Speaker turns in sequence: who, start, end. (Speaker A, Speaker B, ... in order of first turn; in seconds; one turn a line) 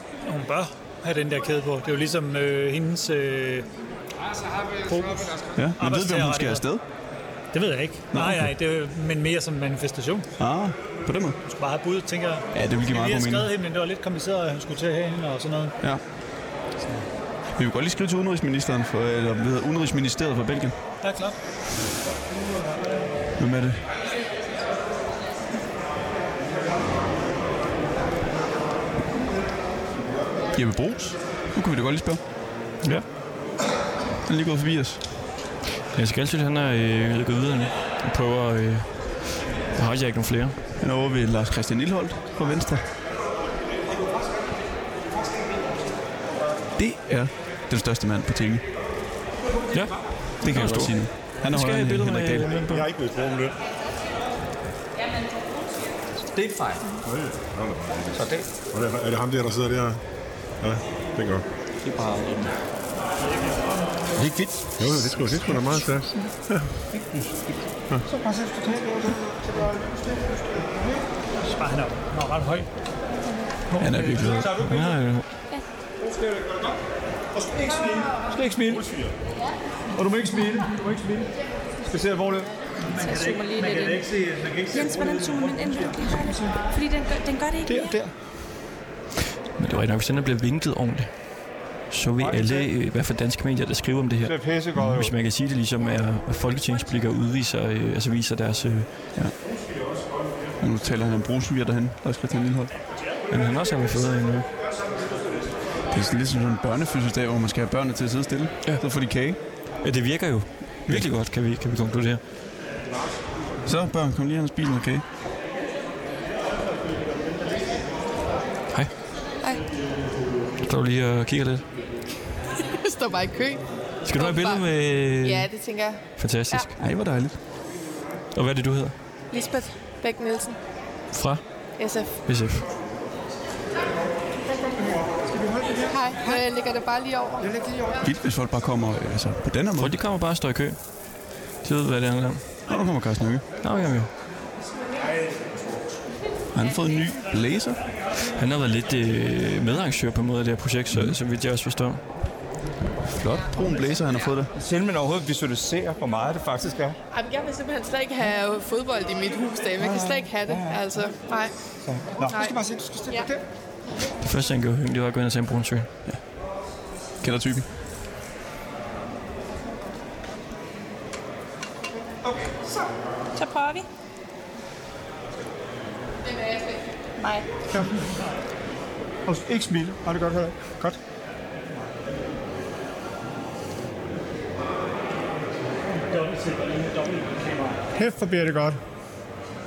Speaker A: 0.2-3.7
Speaker A: 4.9-6.6
Speaker B: 5.5-6.8
Speaker A: 7.5-10.3
Speaker B: 8.1-8.5
Speaker B: 10.4-11.4
Speaker A: 11.6-15.8
Speaker B: 12.5-13.5
Speaker B: 17.6-20.8
Speaker A: 21.0-21.4
Speaker B: 23.4-23.9
Speaker B: 30.5-32.2
Speaker B: 34.2-35.0
Speaker C: 35.9-40.6
Speaker B: 40.8-42.9
Speaker B: 46.8-48.6
Speaker C: 49.7-52.9
Speaker B: 50.4-52.8
Speaker D: 53.1-53.5
Speaker E: 56.3-57.0
Speaker D: 57.0-60.0
Speaker E: 58.1-58.5
Speaker D: 60.6-61.5
Speaker D: 64.8-66.6
Speaker E: 65.4-65.9
Speaker E: 67.0-67.5
Speaker E: 68.1-71.0
Speaker A: 71.5-72.7
Speaker A: 73.7-74.4
Speaker B: 73.8-74.6
Speaker C: 74.2-75.3
Speaker E: 74.2-75.0
Speaker E: 76.0-76.8
Speaker E: 77.3-79.0
Speaker E: 80.0-81.3
Speaker E: 81.8-82.5
Speaker A: 82.8-85.9
Speaker F: 82.9-84.1
Speaker F: 84.7-88.0
Speaker E: 86.2-86.6
Speaker E: 87.7-88.1
Speaker C: 89.6-98.9
Speaker E: 92.2-92.7
Speaker E: 94.2-95.1
Speaker B: 100.6-102.7
Speaker C: 103.3-104.5
Speaker B: 105.9-109.4
Speaker C: 109.8-112.2
Speaker B: 113.7-115.0
Speaker G: 119.4-119.7
Speaker C: 120.6-121.7
Speaker G: 122.6-126.7
Speaker C: 124.0-125.5
Speaker C: 126.2-126.8
Speaker B: 126.8-127.4
Speaker C: 128.3-128.9
Speaker G: 129.3-130.6
Speaker C: 131.1-131.4
Speaker G: 131.8-132.2
Speaker C: 132.2-132.7
Speaker E: 134.4-136.4
Speaker G: 135.9-137.5
Speaker E: 137.4-138.1
Speaker B: 138.0-140.0
Speaker C: 139.8-141.0
Speaker C: 141.6-142.5
Speaker B: 142.7-143.4
Speaker C: 143.6-144.1
Speaker B: 146.5-147.8
Speaker C: 148.4-152.0
Speaker B: 150.9-151.2
Speaker B: 153.1-154.5
Speaker E: 154.6-157.0
Speaker G: 157.1-161.5
Speaker E: 159.8-161.0
Speaker E: 161.8-163.4
Speaker G: 162.2-162.6
Speaker C: 164.2-165.9
Speaker B: 167.2-167.7
Speaker E: 172.1-172.9
Speaker F: 173.4-173.9
Speaker F: 177.2-177.4
Speaker E: 179.3-181.0
Speaker A: 185.9-187.8
Speaker E: 187.9-188.8